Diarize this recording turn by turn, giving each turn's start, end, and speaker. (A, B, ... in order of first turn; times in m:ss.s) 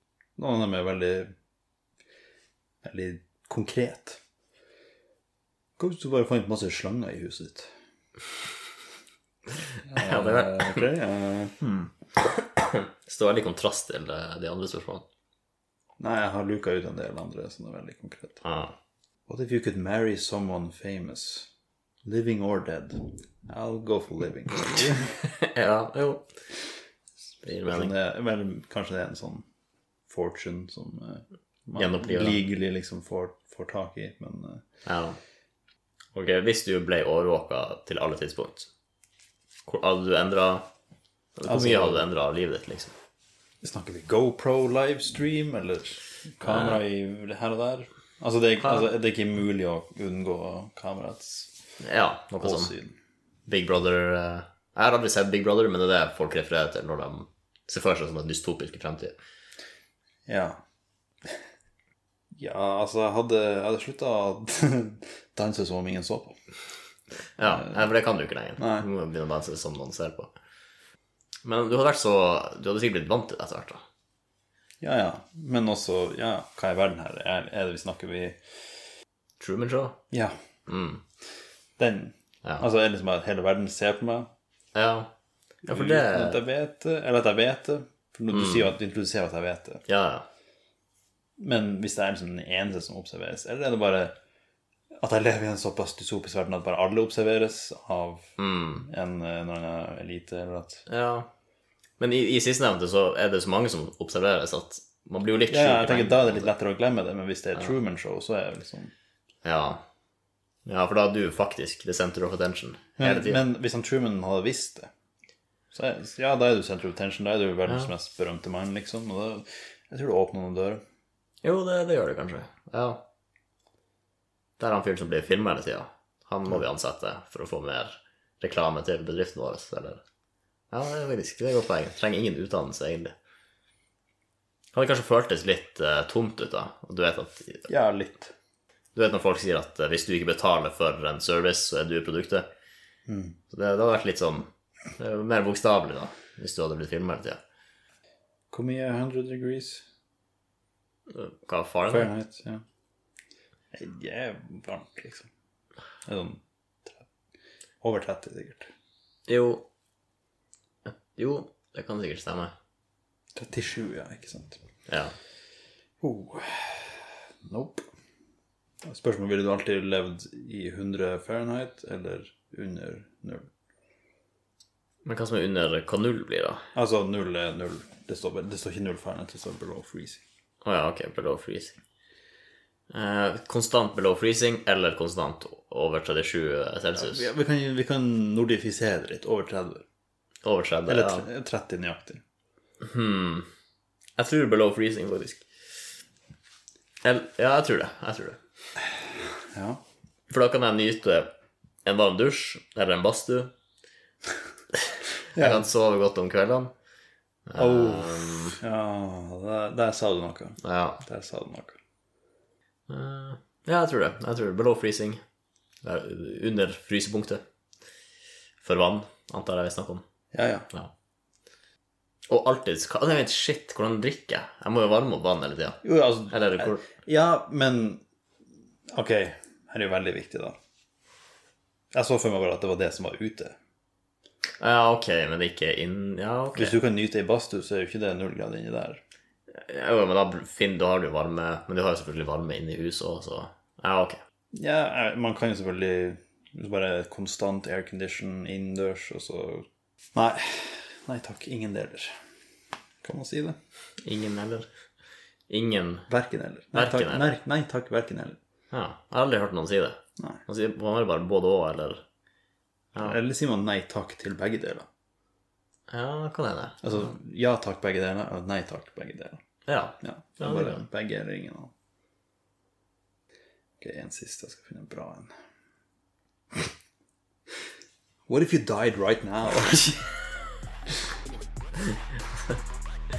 0:00.4-0:01.3 A
0:02.8-0:04.2 A
0:05.8-0:07.7 A
0:09.8-0:11.9 A
0:10.0-0:10.9 B
0:12.4-0:15.0 B
0:16.0-0:18.4 A
0:18.4-0:18.8 B
0:19.3-0:21.5 A
0:22.0-0:25.3 A
0:25.3-0:26.3 B
0:27.4-0:27.9 B
0:27.6-0:29.5 A
0:30.1-0:34.6 A
0:31.8-0:32.4 B
0:34.8-0:35.2 B
0:36.1-0:38.7 B
0:39.7-0:40.7 B
0:41.4-0:42.9 B
0:41.5-0:42.1 A
0:43.6-0:51.5 A
0:46.5-0:46.8 B
0:51.8-0:52.7 B
0:52.4-0:53.0 A
0:53.5-0:59.2 B
1:00.3-1:00.6 A
1:02.4-1:06.4 A
1:07.4-1:10.3 B
1:07.5-1:07.8 A
1:08.6-1:08.9 A
1:11.4-1:13.8 B
1:14.8-1:18.4 A
1:19.4-1:20.0 B
1:20.7-1:21.0 B
1:21.8-1:24.3 A
1:24.8-1:25.1 B
1:25.6-1:29.8 A
1:25.7-1:26.4 B
1:28.3-1:28.7 B
1:29.9-1:30.3 B
1:31.4-1:34.1 A
1:35.0-1:40.9 A
1:38.4-1:38.9 B
1:40.9-1:41.3 B
1:42.0-1:46.5 B
1:45.5-1:48.9 A
1:49.4-1:49.8 B
1:50.7-1:53.4 B
1:53.0-1:54.9 A
1:55.7-2:00.8 A
2:01.4-2:03.1 B
2:04.6-2:10.0 B
2:10.7-2:13.1 B
2:14.7-2:17.7 B
2:17.7-2:18.3 A
2:19.0-2:22.5 B
2:23.1-2:23.4 A
2:23.5-2:27.4 B
2:28.5-2:29.8 A
2:31.1-2:32.1 B
2:31.9-2:32.6 A
2:33.7-2:35.3 A
2:36.0-2:37.1 A
2:37.8-2:38.7 A
2:39.3-2:39.7 B
2:40.9-2:42.5 B
2:43.4-2:44.6 A
2:44.9-2:45.2 B
2:46.0-2:47.9 A
2:48.8-2:53.5 A
2:55.0-2:56.6 B
2:56.8-3:00.2 A
3:00.6-3:01.8 B
3:02.9-3:07.3 B
3:07.0-3:09.8 A
3:10.4-3:11.3 B
3:10.9-3:12.2 A
3:12.8-3:13.5 B
3:14.2-3:15.5 B
3:17.0-3:18.4 B
3:19.5-3:19.8 A
3:20.3-3:21.3 B
3:21.8-3:23.5 B
3:24.7-3:26.7 B
3:25.4-3:25.7 A
3:27.5-3:28.6 B
3:27.6-3:31.8 A
3:30.6-3:31.0 B
3:32.9-3:35.2 B
3:35.8-3:37.4 B
3:38.6-3:40.0 B
3:40.3-3:40.7 A
3:42.3-3:46.9 B
3:45.8-3:48.0 A
3:48.9-3:50.6 A
3:51.9-3:53.6 A
3:54.6-3:56.8 B
3:56.6-3:59.0 A
3:59.5-4:04.2 B
4:04.5-4:12.2 A
4:13.0-4:13.6 A
4:14.0-4:14.7 B
4:15.5-4:16.1 B
4:16.1-4:18.4 A
4:16.7-4:17.4 B
4:18.7-4:22.0 B
4:23.0-4:24.9 A
4:25.9-4:26.8 B
4:26.8-4:29.4 A
4:29.7-4:30.8 B
4:30.0-4:31.7 A
4:33.8-4:35.3 A
4:38.3-4:40.2 A